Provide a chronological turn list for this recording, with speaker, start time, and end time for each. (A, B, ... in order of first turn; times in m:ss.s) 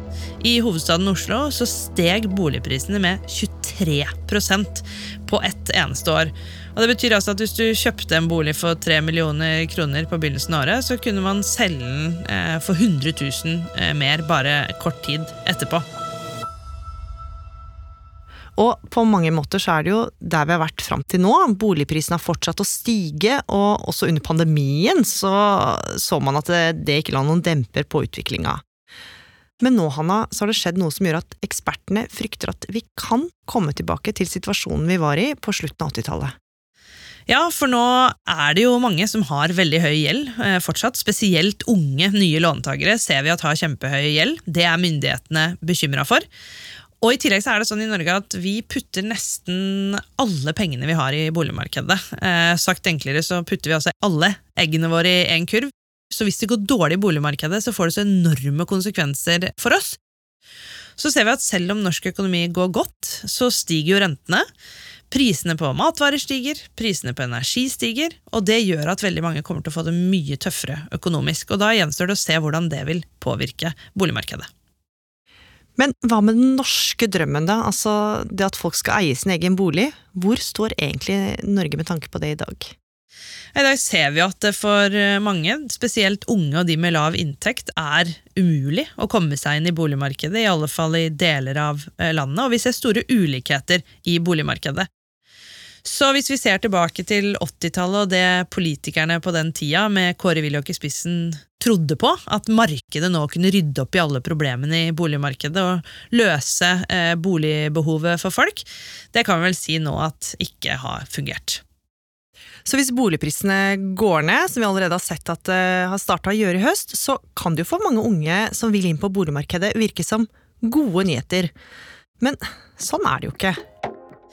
0:00.4-0:15.8 A
0:18.6-0:28.6 B
0:29.6-0:36.3 B
0:37.3-0:46.2 A
0:47.0-1:00.0 A
1:01.0-1:04.5 A
1:05.1-1:14.5 A
1:15.8-1:22.7 B
1:23.5-1:34.9 A
1:35.8-1:51.6 A
1:52.6-2:01.5 B
2:02.2-2:03.5 B